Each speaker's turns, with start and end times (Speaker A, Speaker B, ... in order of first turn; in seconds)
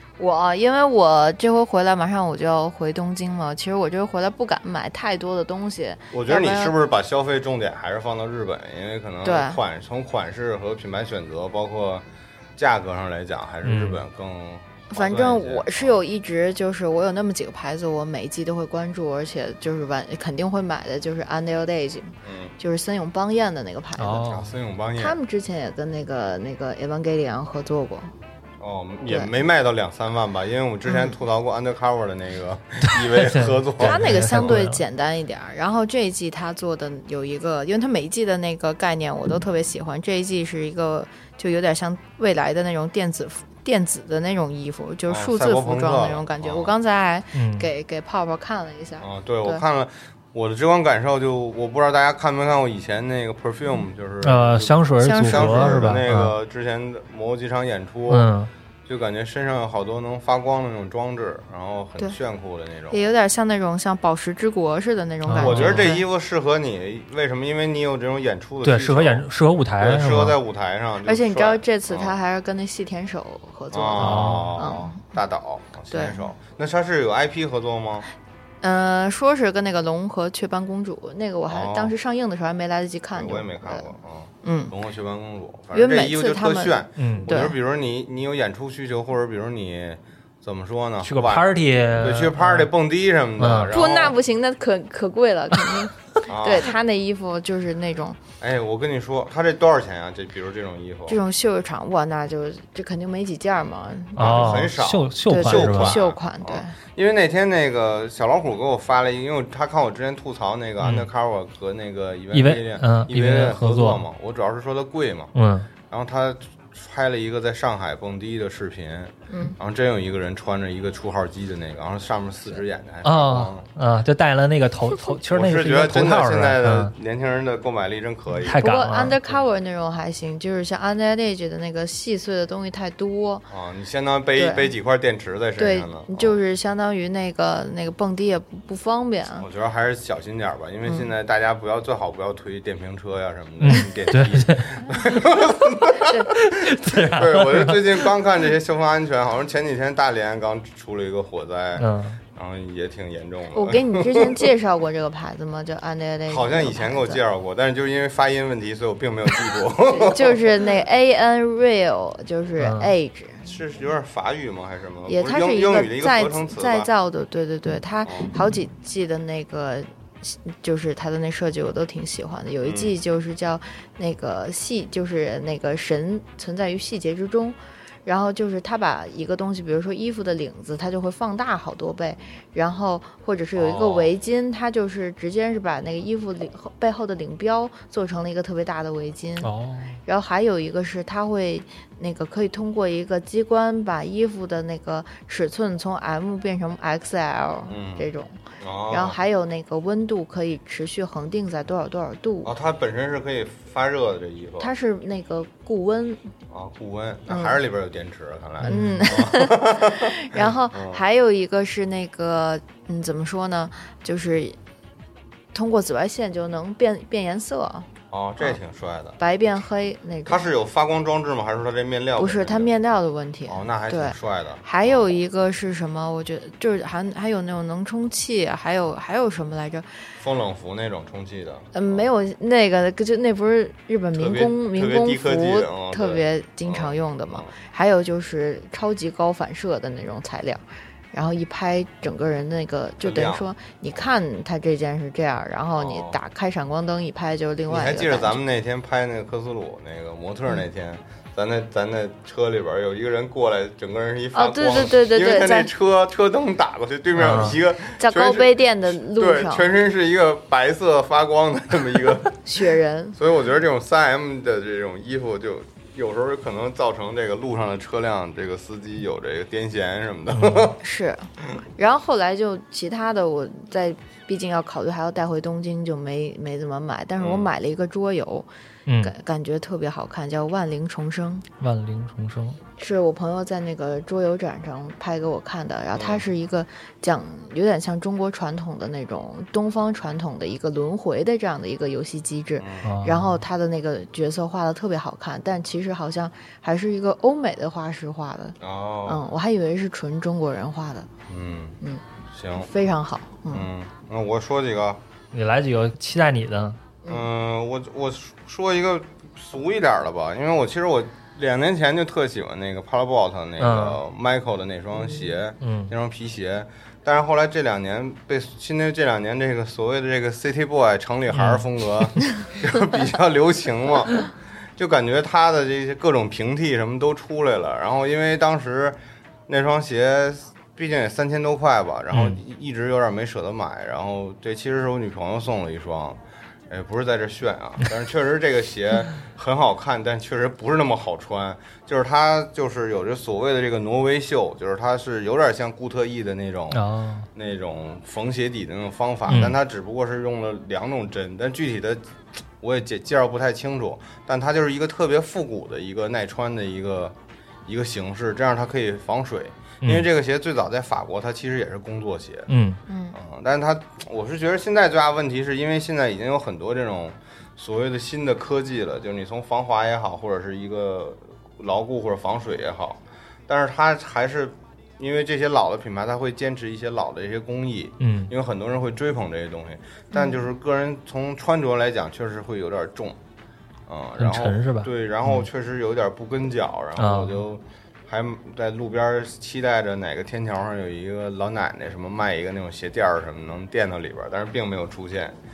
Speaker A: 0.2-6.8, 9.2-9.6, 14.9-24.3, 25.0-28.1, 29.1-29.3, 30.9-31.2, 33.8-49.6, 55.0-56.0, 62.9-66.0, 71.0-75.1, 75.9-76.3, 78.6-83.9, 84.4-84.7, 85.7-87.5, 93.7-98.2, 101.1-104.7, 105.3-106.8, 119.3-119.6, 128.6-133.5, 134.4-134.7, 135.6-139.5, 145.9-146.3, 153.5-157.2, 159.8-163.5, 165.1-189.5, 190.1-198.4, 198.9-202.5, 204.6-206.2, 207.3-207.6, 208.7-214.6, 215.5-217.9, 219.2-220.5, 222.2-229.9, 231.7-248.4, 254.3-255.7, 257.8-259.7, 262.4-263.2, 270.8-278.5, 279.0-281.4, 282.8-301.1, 302.6-303.7, 362.9-363.2
Speaker B: 6.1-12.0, 12.6-16.0, 22.2-22.5, 24.2-25.2, 28.6-34.6, 45.1-46.7, 49.0-58.3, 58.9-63.0, 65.4-69.3, 69.8-72.2, 73.7-78.1, 81.5-82.0, 83.2-94.2, 96.3-96.7, 98.4-101.2, 104.2-115.3, 115.9-123.7, 125.3-128.6, 133.5-136.4, 139.4-154.5, 156.3-160.7, 163.4-166.9, 172.6-173.0, 183.6-184.1, 197.7-198.1, 198.6-199.2, 202.4-204.7, 206.5-211.0, 218.1-219.2, 220.3-222.7, 223.5-225.2, 230.2-232.1, 234.1-237.5, 243.0-243.4, 245.8-246.2, 247.7-262.4, 263.2-270.8, 277.2-277.5, 285.9-286.3, 292.6-292.9, 298.6-299.2, 301.3-301.8, 302.3-302.7, 303.5-305.0, 307.1-346.8, 347.3-352.0, 352.6-362.5, 363.1-383.2, 383.9-395.4
Speaker C: 13.6-14.0, 24.0-24.6, 33.1-34.8, 47.3-47.7, 54.2-56.3, 58.1-58.5, 65.3-66.0, 68.6-70.4, 74.0-74.6, 87.0-87.3, 91.0-92.7, 93.4-93.7, 104.2-106.0, 110.8-111.1, 112.3-114.0, 115.3-115.7, 123.0-126.9, 128.4-129.2, 143.6-144.7, 146.4-148.0, 151.8-152.2, 162.6-162.9, 189.4-190.0, 208.6-209.0, 257.2-257.6, 270.3-270.7, 278.9-279.1, 281.6-282.6, 292.9-293.4, 305.3-306.8, 313.6-314.0, 315.6-315.9, 321.3-322.1, 332.1-332.4, 346.7-347.3, 349.3-349.6, 362.5-362.8, 378.0-378.3, 384.2-385.4, 387.0-387.4